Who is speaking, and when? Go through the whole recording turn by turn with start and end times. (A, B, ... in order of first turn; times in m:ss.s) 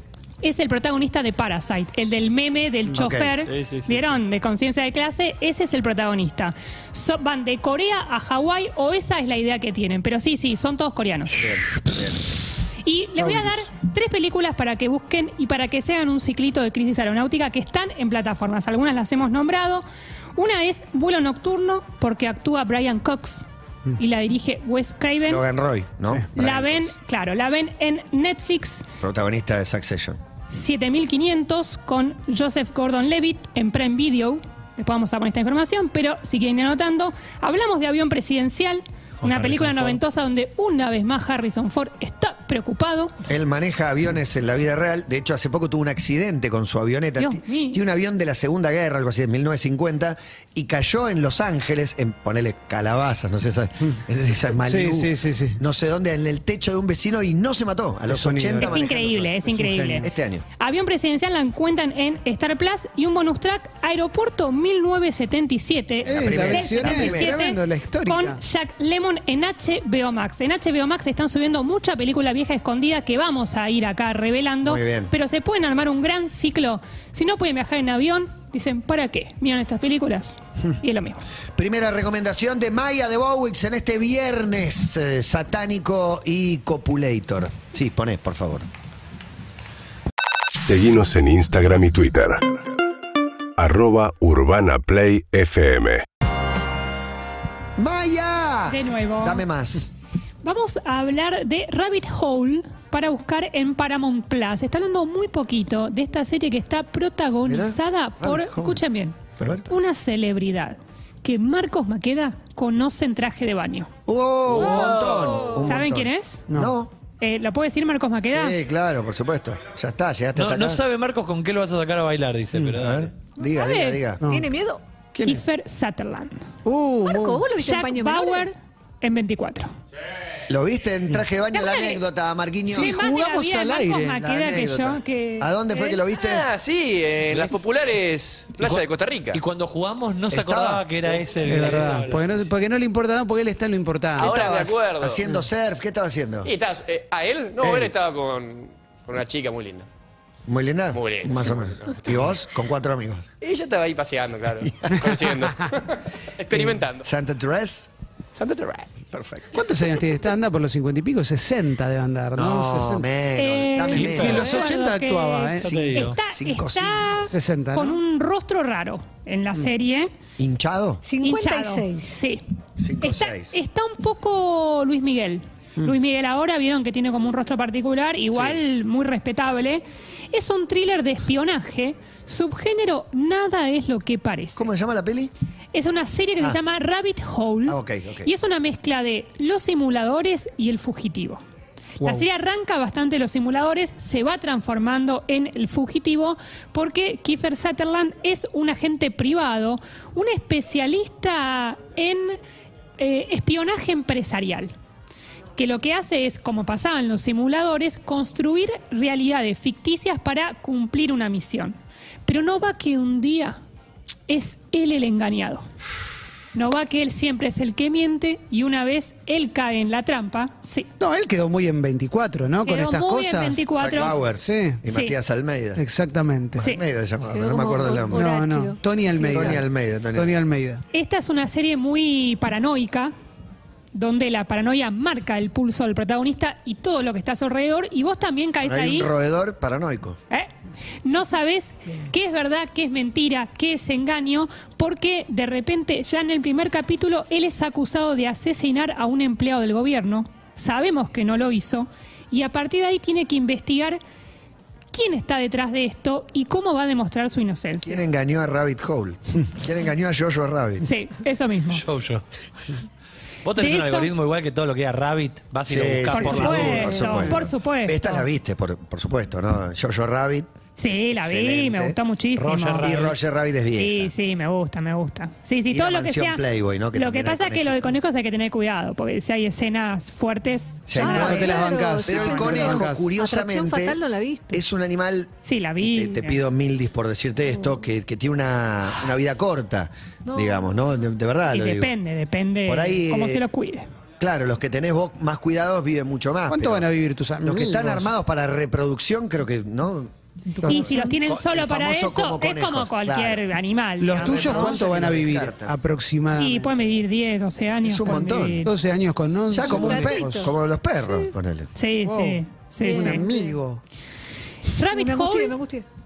0:00.4-0:11.5 A
0:02.9-0:03.4 B
0:03.5-0:04.2 C
0:11.4-0:12.2 B
0:12.8-0:19.8 A
0:20.4-0:25.4 A
0:25.3-0:26.9 B
0:26.3-0:28.8 A
0:29.0-0:30.2 B
0:30.5-0:43.1 A
0:39.2-0:40.0 C
0:43.3-0:59.3 B
0:47.2-0:47.8 A
0:54.6-0:55.6 D
0:58.1-0:58.8 D
0:58.6-1:21.2 A
0:59.5-1:00.1 D
1:00.0-1:00.4 B
1:06.0-1:07.4 B
1:06.0-1:08.4 D
1:14.6-1:15.1 B
1:21.6-1:28.7 B
1:30.6-1:32.5 E
1:33.6-1:36.0 E
1:37.8-1:39.9 B
1:38.7-1:39.4 A
1:40.4-1:53.9 A
1:47.5-1:48.8 B
1:49.4-1:49.7 B
1:54.0-1:56.9 B
1:55.6-1:56.4 A
1:56.5-1:56.7 D
1:57.2-1:58.6 A
1:58.2-2:00.8 B
2:00.4-2:03.1 C
2:02.7-2:04.2 B
2:03.4-2:04.0 A
2:04.2-2:04.5 D
2:04.3-2:04.8 F
2:05.1-2:05.4 B
2:05.2-2:06.4 A
2:06.6-2:07.4 D
2:07.0-2:08.5 F
2:07.6-2:09.7 A
2:10.5-2:12.9 B
2:11.5-2:12.0 A
2:12.7-2:14.1 D
2:12.7-2:16.0 A
2:14.0-2:16.5 B
2:16.1-2:19.4 G
2:17.3-2:17.5 D
2:18.6-2:22.5 C
2:20.3-2:20.9 B
2:21.4-2:24.4 D
2:24.2-2:25.2 G
2:24.2-2:26.5 B
2:26.4-2:29.9 G
2:27.6-2:28.0 B
2:30.5-2:33.2 B
2:30.9-2:32.0 G
2:33.4-2:37.0 G
2:34.5-2:35.1 B
2:35.0-2:35.5 D
2:36.5-2:37.9 B
2:38.3-2:39.0 G
2:39.1-2:39.6 B
2:39.5-2:43.1 D
2:42.4-2:44.5 B
2:43.4-2:50.1 A
2:43.8-2:46.0 D
2:45.6-2:46.2 C
2:46.3-2:47.3 B
2:47.3-2:48.0 D
2:50.4-2:51.0 B
2:51.0-2:52.3 F
2:51.2-2:52.4 A
2:52.8-2:53.6 B
2:53.0-3:04.7 A
2:58.3-2:58.6 B
3:04.6-3:05.3 B
3:05.7-3:11.4 A
3:07.7-3:08.3 B
3:12.0-3:22.4 A
3:23.0-3:24.7 A
3:25.6-3:33.6 A
3:34.3-3:35.6 A
3:36.5-3:40.9 A
3:41.0-3:43.6 D
3:42.6-3:44.2 A
3:43.8-3:45.8 B
3:44.4-3:44.8 D
3:44.8-3:45.2 A
3:45.8-3:46.6 D
3:46.6-3:48.3 B
3:47.3-3:49.3 F
3:48.1-3:50.8 D
3:49.2-3:50.4 B
3:50.9-3:53.1 A
3:53.9-3:59.1 A
3:58.6-4:00.2 B
4:01.0-4:14.0 A
4:14.9-4:18.0 A
4:17.8-4:20.8 B
4:20.8-4:21.8 A
4:21.7-4:22.2 C
4:23.4-4:27.2 C
4:23.6-4:24.1 A
4:25.6-4:30.5 B
4:26.1-4:28.2 A
4:30.8-4:32.9 A
4:31.1-4:32.0 B
4:32.4-4:33.2 C
4:32.8-4:34.1 B
4:33.8-4:42.7 A
4:35.7-4:37.9 B
4:40.9-4:51.9 B
4:40.9-4:44.6 F
4:41.2-4:43.1 D
4:45.4-4:46.4 A
4:51.5-4:53.8 A
4:52.7-4:53.4 B
4:54.2-4:56.8 B
4:56.5-4:58.1 D
4:57.4-5:00.1 B
5:00.6-5:00.9 D
5:00.6-5:03.4 B
5:00.7-5:04.8 A
5:04.0-5:06.6 D
5:04.1-5:05.7 B
5:06.3-5:08.7 A
5:07.8-5:08.7 B
5:08.6-5:10.5 D
5:09.5-5:11.7 B
5:09.8-5:10.4 F
5:11.7-5:13.2 A
5:12.0-5:13.8 D
5:12.8-5:13.3 F
5:14.7-5:15.6 A
5:14.9-5:15.8 F